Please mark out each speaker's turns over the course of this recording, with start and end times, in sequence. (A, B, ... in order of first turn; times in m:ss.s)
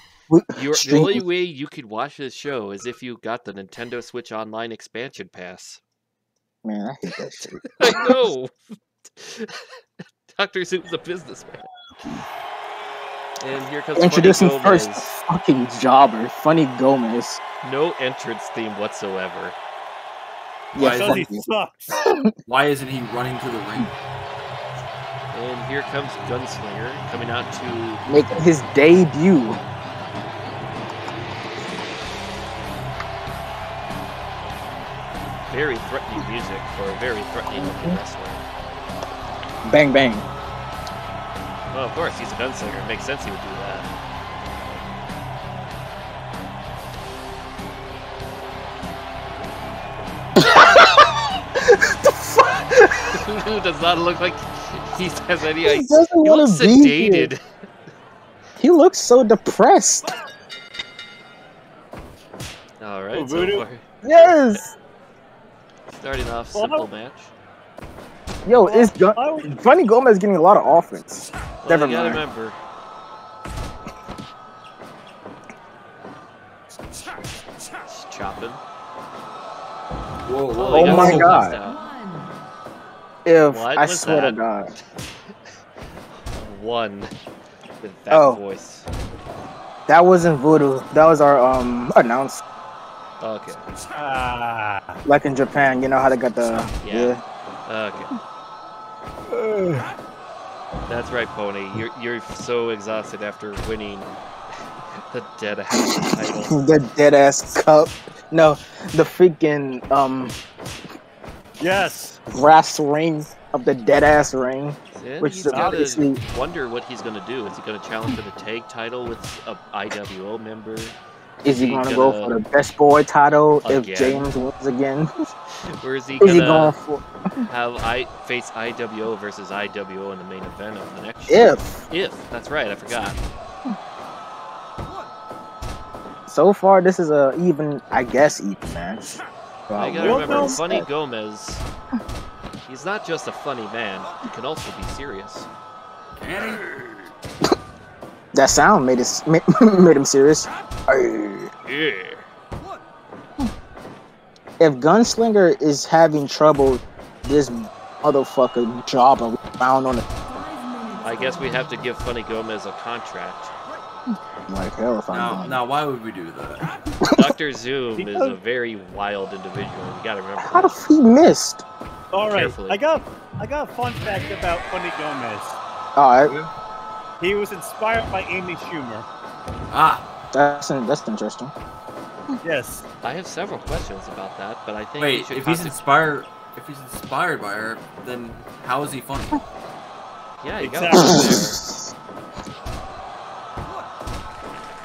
0:00.3-0:01.2 A
0:00.5-0:05.8 B
0:06.6-0:08.1 A
0:07.8-0:08.6 B
0:09.1-0:09.7 B
0:10.2-0:11.7 B
0:13.4-0:15.1 B
0:14.0-0:17.4 A
0:17.6-0:19.6 B
0:20.7-0:21.4 A
0:20.8-0:21.3 C
0:20.8-0:21.9 D
0:22.0-0:22.3 A
0:22.5-0:23.9 C
0:25.3-0:28.0 B
0:28.1-0:29.6 A
0:35.5-0:38.4 B
0:37.5-0:38.0 A
0:39.6-0:40.2 A
0:41.7-0:43.9 B
0:50.4-0:53.2 A
0:53.1-0:57.4 B
0:55.6-0:57.3 A
0:58.6-1:00.0 A
1:02.8-1:03.8 B
1:03.1-1:03.6 D
1:04.0-1:04.7 A
1:05.9-1:07.3 B
1:06.5-1:06.9 D
1:08.4-1:12.2 A
1:08.6-1:09.6 D
1:11.6-1:12.6 B
1:17.9-1:18.6 B
1:20.2-1:21.5 C
1:20.5-1:21.9 B
1:20.7-1:21.6 A
1:23.2-1:24.7 A
1:23.5-1:24.4 B
1:26.2-1:27.1 B
1:27.8-1:28.9 B
1:28.1-1:28.4 A
1:29.9-1:32.4 A
1:33.2-1:33.6 B
1:33.9-1:35.0 D
1:35.0-1:37.2 A
1:36.8-1:37.1 B
1:37.6-1:38.1 B
1:40.9-1:44.1 B
1:45.1-1:46.6 B
1:45.8-1:50.3 A
1:51.6-1:52.2 D
1:52.3-1:56.2 A
1:55.0-2:01.0 B
1:55.5-1:55.8 D
2:01.4-2:05.1 A
2:01.5-2:02.4 B
2:03.6-2:04.3 B
2:05.8-2:06.8 B
2:06.2-2:07.0 A
2:07.4-2:13.2 B
2:11.3-2:11.8 A
2:16.3-2:20.9 A
2:19.8-2:21.6 B
2:20.0-2:20.6 D
2:22.7-2:25.5 B
2:26.2-2:26.8 C
2:28.3-2:31.5 A
2:31.6-2:32.3 B
2:34.6-2:40.0 A
2:41.0-2:43.5 B
2:44.5-2:45.6 A
2:45.1-2:46.7 C
2:47.1-2:50.8 B
2:48.0-2:48.4 D
2:50.4-2:51.6 A
2:52.1-2:55.6 D
2:52.3-2:52.8 B
2:56.0-2:56.3 A
2:57.2-2:59.1 D
2:59.7-3:00.0 C
3:00.3-3:01.5 A
3:02.4-3:02.8 D
3:03.0-3:05.8 B
3:05.0-3:09.4 C
3:10.4-3:11.6 B
3:10.6-3:11.3 D
3:10.9-3:11.9 A